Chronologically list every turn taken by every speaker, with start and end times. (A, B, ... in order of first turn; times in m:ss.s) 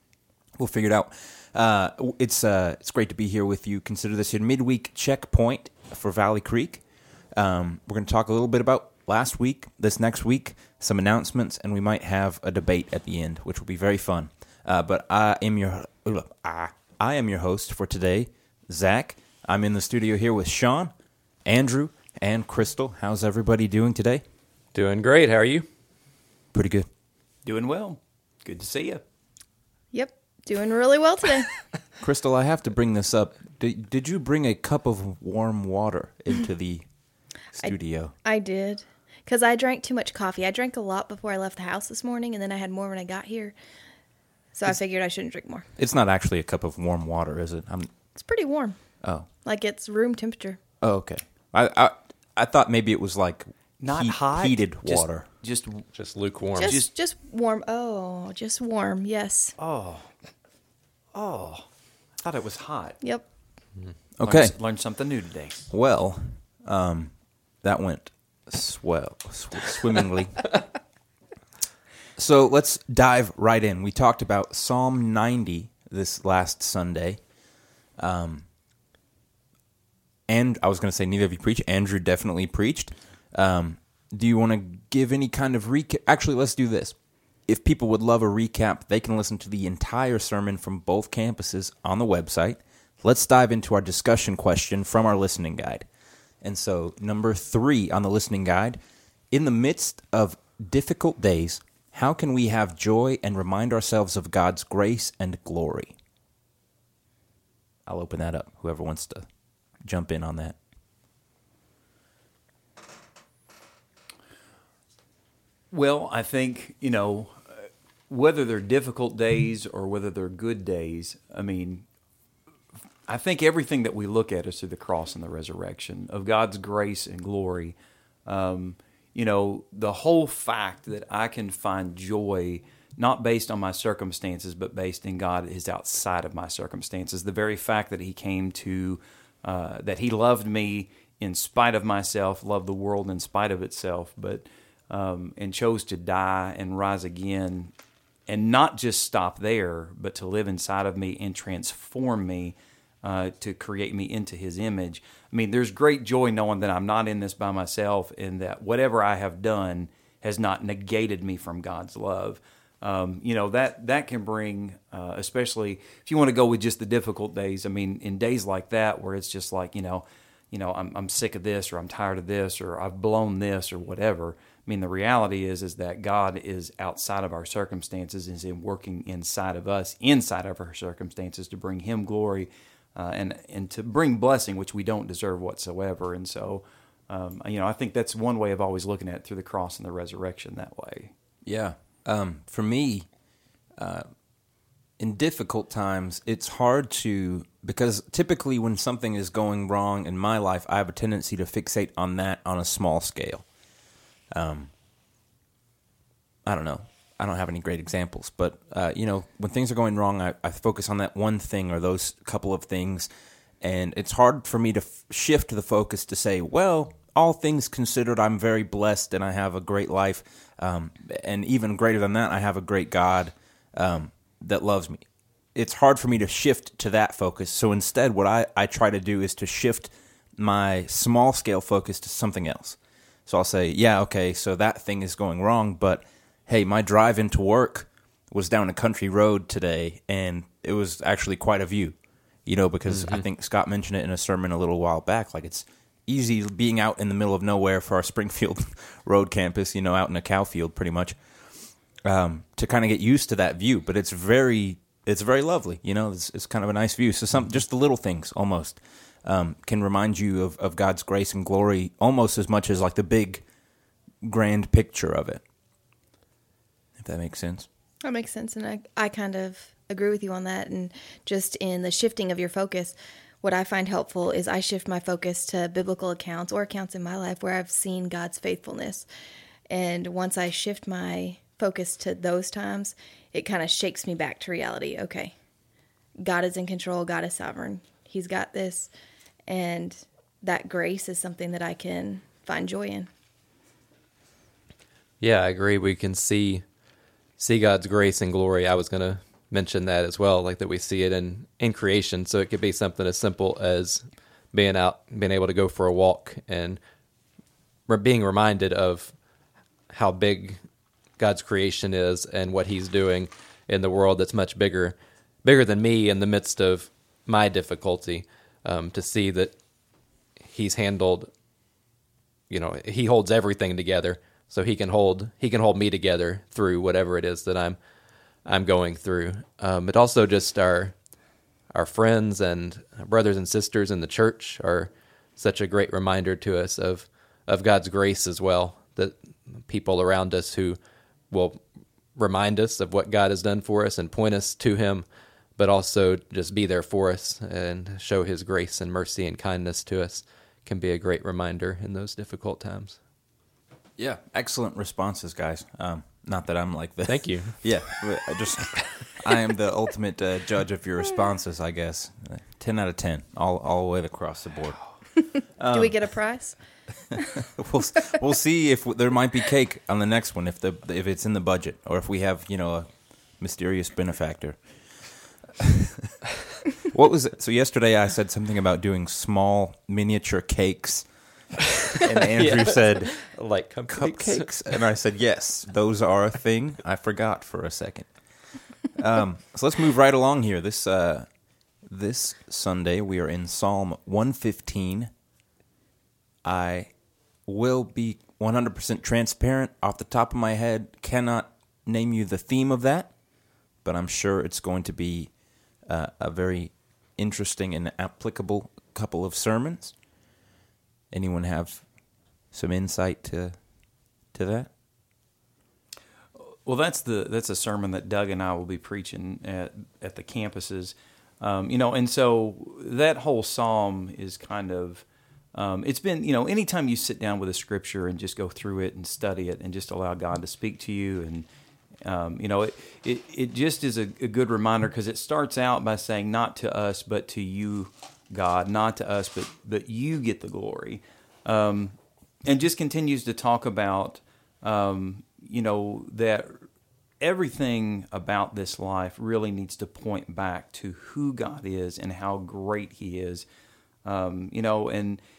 0:00.6-0:20.9 A
0:21.4-0:24.2 A
0:24.7-0:25.7 B
0:26.5-0:26.9 A
0:27.4-0:29.0 C
0:29.9-0:31.5 D
0:32.0-0:36.9 A
0:37.5-0:38.1 A
0:37.6-0:43.5 D
0:44.5-0:45.6 D
0:45.8-0:47.9 A
0:48.2-0:48.8 D
0:49.4-0:50.6 D
0:50.8-0:55.2 A
0:53.8-0:55.9 C
0:55.9-0:56.8 B
0:56.6-0:56.9 C
0:56.6-0:59.5 D
0:59.6-1:00.1 C
1:01.1-1:01.7 C
1:02.2-1:03.0 C
1:03.0-1:03.2 D
1:04.2-1:04.6 A
1:04.2-1:05.6 C
1:05.7-1:10.5 A
1:12.2-1:17.2 A
1:18.0-1:18.5 A
1:20.3-1:35.9 A
1:36.4-1:38.8 A
1:39.3-1:45.9 A
1:47.8-1:49.2 A
1:49.8-1:50.6 A
1:55.7-2:01.8 C
2:03.1-2:27.7 C
2:28.3-3:11.1 C
3:11.4-3:13.1 A
3:13.8-3:14.1 A
3:15.0-3:23.5 A
3:24.3-3:24.7 A
3:26.4-3:33.1 A
3:33.6-4:23.4 A
4:02.9-4:03.2 B
4:24.2-4:25.4 A
4:27.0-4:27.7 A
4:28.0-4:39.1 D
4:39.7-4:45.3 D
4:46.2-4:48.9 D
4:49.5-4:53.1 D
4:55.2-4:56.8 B
4:57.4-5:06.8 B
5:07.9-5:09.2 B
5:09.9-5:10.6 B
5:11.2-5:19.6 B
5:20.4-5:21.3 B
5:22.5-5:27.8 B
5:28.3-5:31.2 B
5:31.7-5:40.8 B
5:41.3-5:45.0 B
5:45.6-5:53.0 B
5:54.0-6:05.0 A
5:57.0-5:57.7 B
6:05.6-6:06.6 A
6:05.7-6:07.2 D
6:07.6-6:15.6 A
6:16.9-6:31.3 A
6:22.3-6:24.8 B
6:31.8-6:35.1 A
6:36.4-6:36.9 A
6:37.4-6:43.2 A
6:43.8-6:49.9 A
6:51.1-6:51.9 A
6:52.5-6:53.6 A
6:54.3-6:54.7 A
6:56.6-7:11.4 C
7:12.0-7:26.7 C
7:27.2-7:33.4 C
7:34.0-7:35.2 C